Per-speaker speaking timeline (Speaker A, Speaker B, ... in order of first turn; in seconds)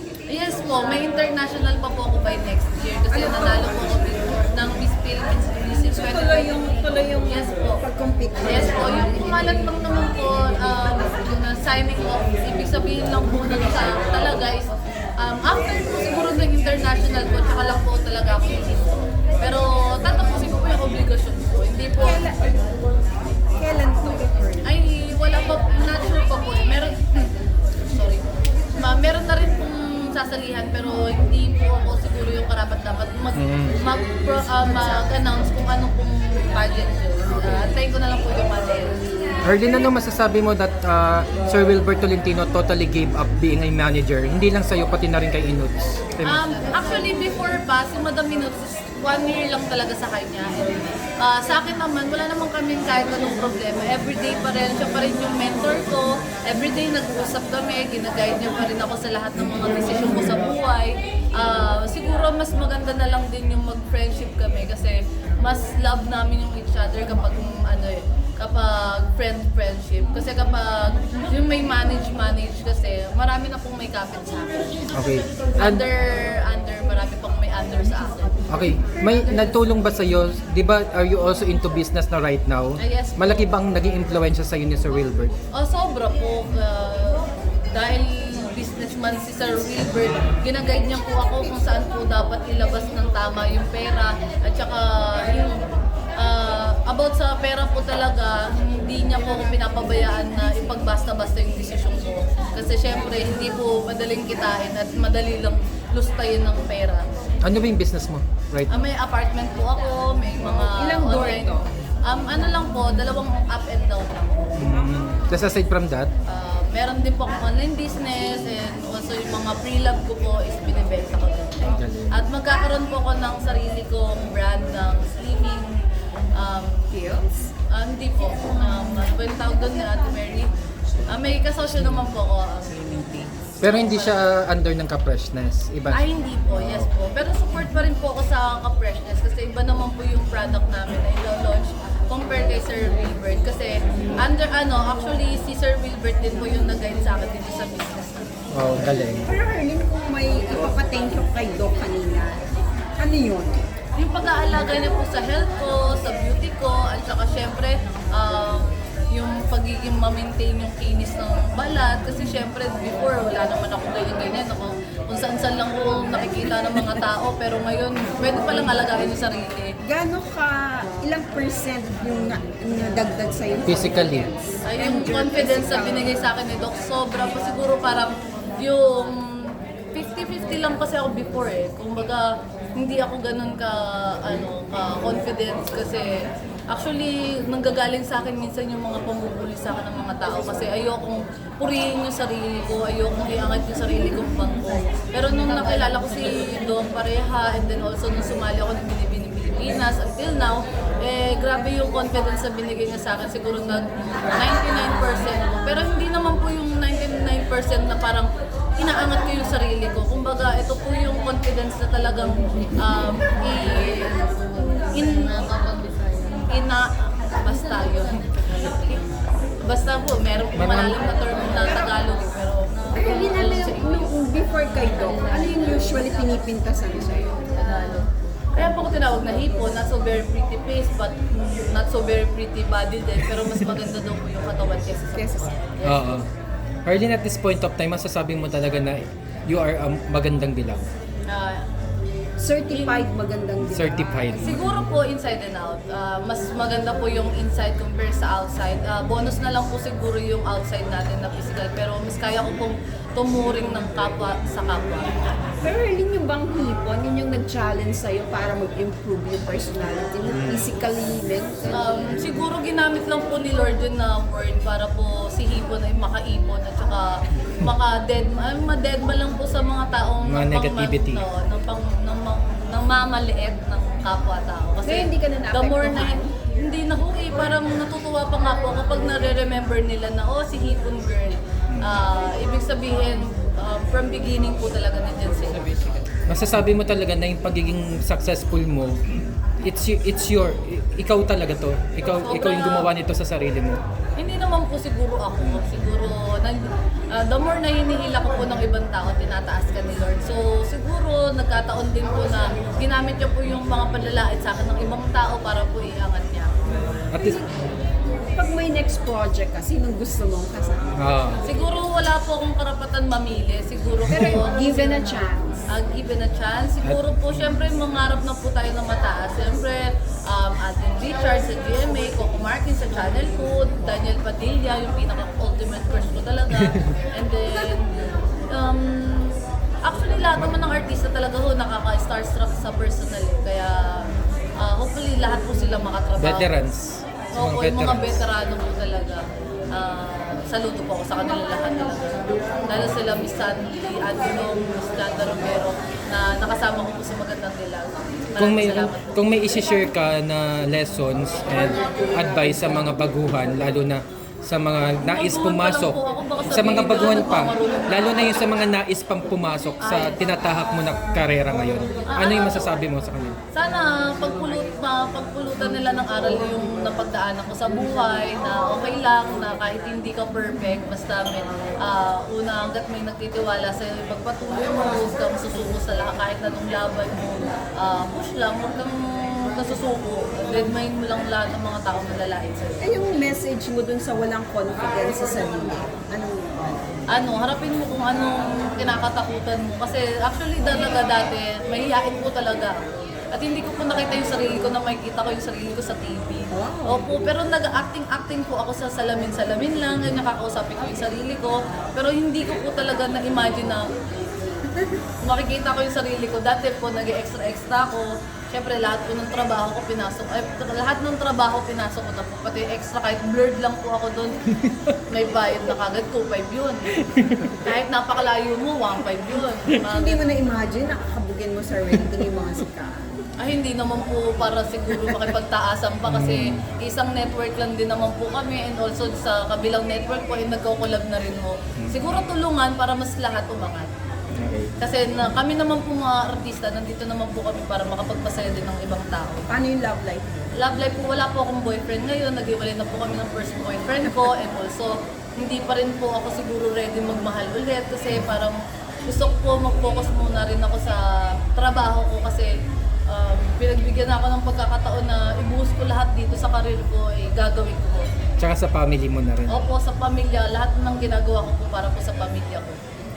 Speaker A: 0.3-7.8, 8.4-22.2, 24.6-27.3, 27.8-39.0, 46.2-74.9, 75.6-78.3, 82.8-83.5, 85.5-95.7, 96.2-107.0, 108.7-114.6, 116.3-125.8, 126.4-126.9, 127.7-130.5, 131.1-134.2, 135.9-148.3, 154.0-169.7, 174.7-179.2, 179.9-182.2, 182.8-186.1, 186.7-214.1, 214.9-215.7, 216.5-219.0, 219.6-223.8, 227.5-236.2, 241.3-241.7, 242.7-243.0, 244.3-255.1, 261.7-285.7, 292.1-292.9, 294.2-296.6, 297.1-306.7, 311.5-334.0, 334.6-336.5, 337.4-339.2, 339.7-349.1, 355.1-358.2, 359.8-360.2, 362.1-362.8, 363.5-383.0, 387.1-392.8, 393.3-403.8, 405.2-414.3, 415.1-416.9, 417.6-420.2, 423.4-433.9, 434.8-439.4, 440.6-451.0, 451.5-452.5, 453.1-458.1, 459.5-462.8
Speaker B: 3.1-3.7, 6.0-9.5, 22.0-22.6, 23.6-24.7, 110.8-111.7, 126.9-127.5, 149.3-152.4, 153.0-153.7, 169.8-176.2, 221.7-221.9, 222.9-227.4, 235.2-235.5, 242.4-244.2, 255.6-262.0, 274.8-276.3, 307.2-307.4, 308.3-310.9, 314.1-315.6, 382.8-386.8, 396.5-397.1, 419.9-423.1, 439.5-440.4
Speaker C: 33.4-33.8, 37.3-37.7, 39.4-46.4, 75.0-75.8, 78.5-85.3, 107.4-108.8, 114.6-116.1, 121.6-122.1, 131.7-132.0, 133.6-136.8, 148.5-149.3, 173.7-174.3, 220.6-221.0, 235.8-236.2, 236.8-240.8, 243.6-244.8, 260.3-260.7, 270.2-271.2, 286.3-288.9, 289.6-293.8, 307.1-307.4, 311.0-311.4, 326.6-326.9, 336.2-338.2, 348.4-356.0, 356.5-363.4, 417.0-417.6, 426.1-426.6, 434.4-434.7, 458.4-459.6